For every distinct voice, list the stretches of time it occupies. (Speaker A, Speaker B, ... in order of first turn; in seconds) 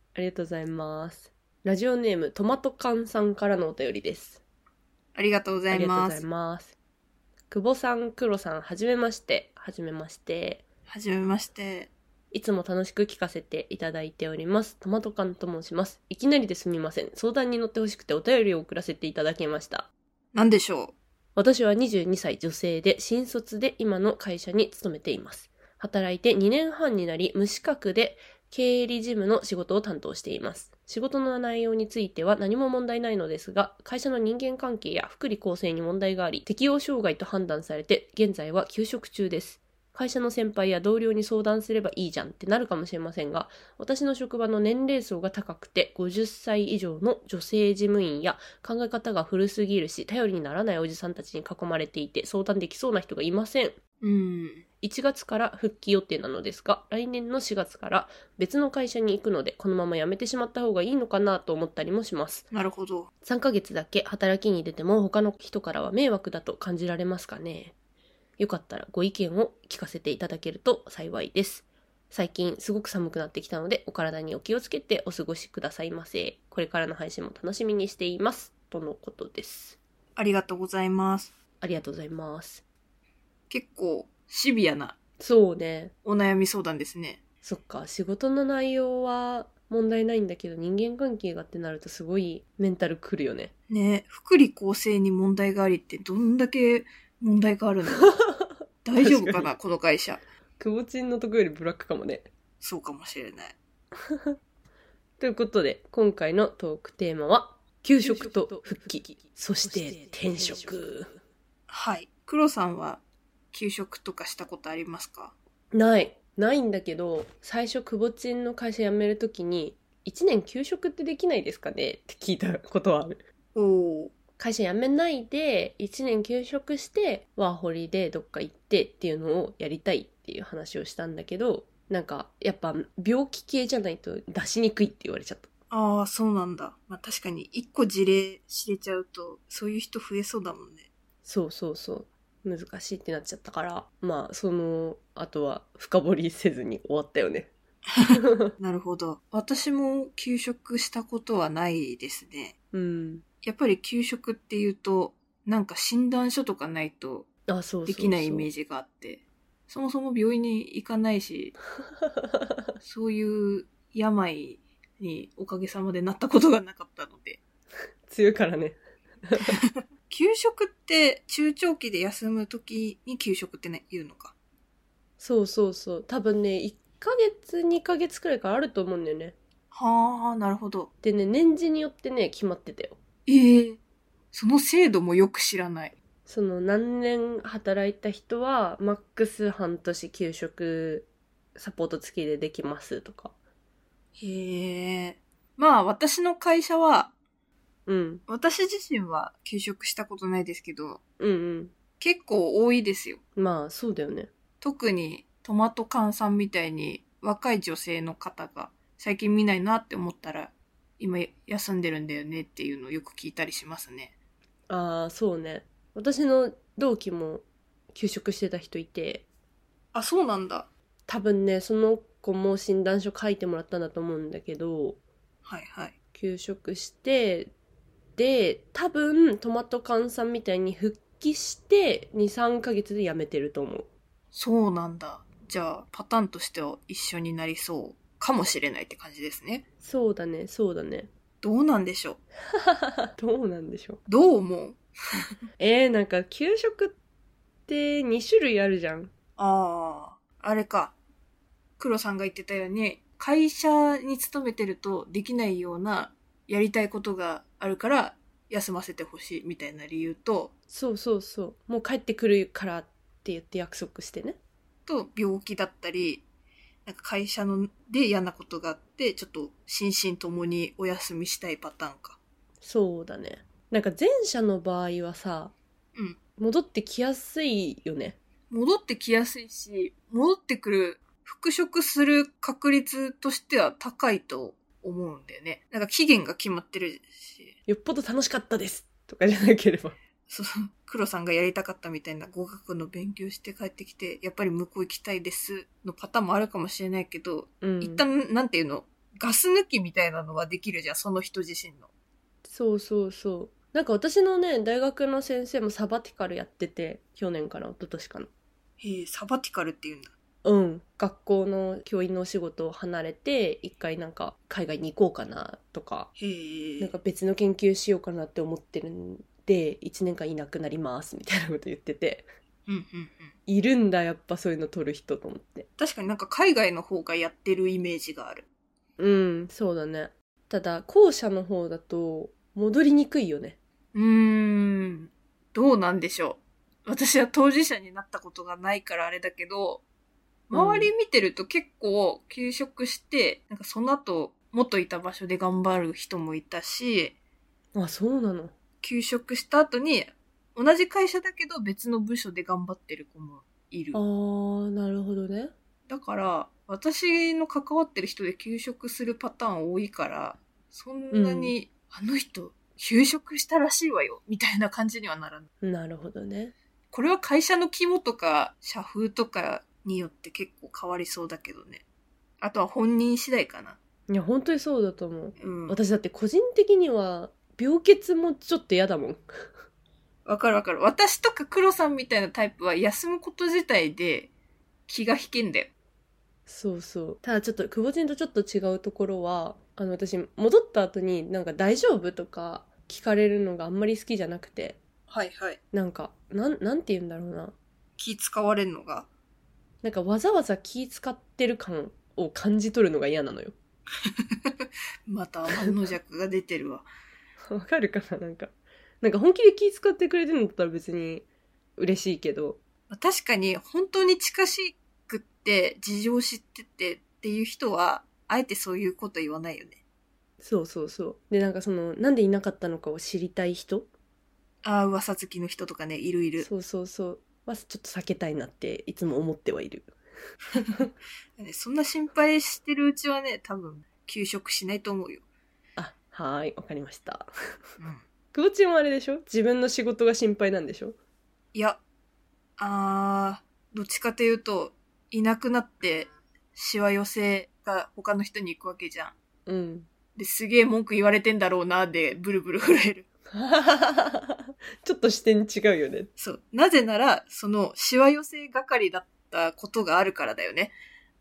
Speaker A: 0.1-4.4, 5.7-6.7, 7.5-10.6, 12.3-19.9, 21.4-53.8, 54.8-62.5, 63.2-67.7, 68.4-79.8, 81.6-82.6, 85.2-85.9, 87.4-93.5, 98.4-99.5, 100.6-102.3, 105.2-111.1, 115.7-123.2, 124.4-135.5, 141.2-147.5, 152.7-153.2, 157.5-158.5, 162.0-162.6, 168.1-169.6, 175.2-179.3, 181.0-183.0, 186.3-193.3, 197.9-198.2, 201.2-201.7, 203.4-204.3, 214.7-219.2, 221.1-225.0, 226.1-227.5, 228.2-233.9, 239.8-241.1, 242.6-244.0, 245.6-246.9, 247.7-249.1, 260.7-264.4, 272.6-275.6, 276.4-278.2, 287.7-290.0, 297.6-298.0, 302.5-308.3, 310.4-316.1, 316.8-322.2, 323.5-325.7, 329.0-333.6, 340.5-340.9, 347.8-348.5, 353.9-355.5, 361.1-361.5, 365.6-366.5, 374.1-379.5, 386.5-394.8, 395.7-397.5, 399.8-403.6, 407.5-411.3, 411.8-412.6, 420.4-423.9, 426.4-429.9, 435.8-437.3, 438.3-441.0, 449.5-449.9, 453.3-456.1
Speaker B: 5.2-6.2, 10.9-11.9, 20.3-20.9, 54.0-54.6, 62.5-63.1, 80.2-81.3, 83.5-85.0, 86.0-87.2, 93.7-98.1, 98.8-100.2, 102.6-103.5, 108.0-108.5, 111.7-113.0, 113.5-115.3, 123.5-124.1, 135.7-140.9, 148.0-152.6, 153.4-157.3, 157.9-161.6, 162.8-167.4, 169.6-174.3, 179.7-180.9, 183.3-183.8, 184.3-185.9, 194.2-197.1, 198.3-201.0, 202.0-203.2, 204.6-214.1, 219.9-220.7, 225.4-225.9, 234.3-239.6, 241.4-242.2, 244.1-244.8, 249.4-250.9, 251.8-260.5, 264.9-266.2, 266.9-272.2, 278.5-287.6, 290.3-301.9, 308.8-310.1, 316.2-317.0, 322.7-323.3, 325.8-328.5, 333.9-339.8, 340.5-347.1, 348.8-354.0, 355.9-365.5, 366.9-371.8, 372.4-373.8, 375.4-375.8, 380.3-384.3, 384.9-385.7, 395.1-395.6, 398.0-399.1, 404.1-406.9, 412.9-419.8, 424.6-426.5, 431.4-435.2, 441.5-441.8, 442.6-449.1, 450.2-453.1, 456.2-460.7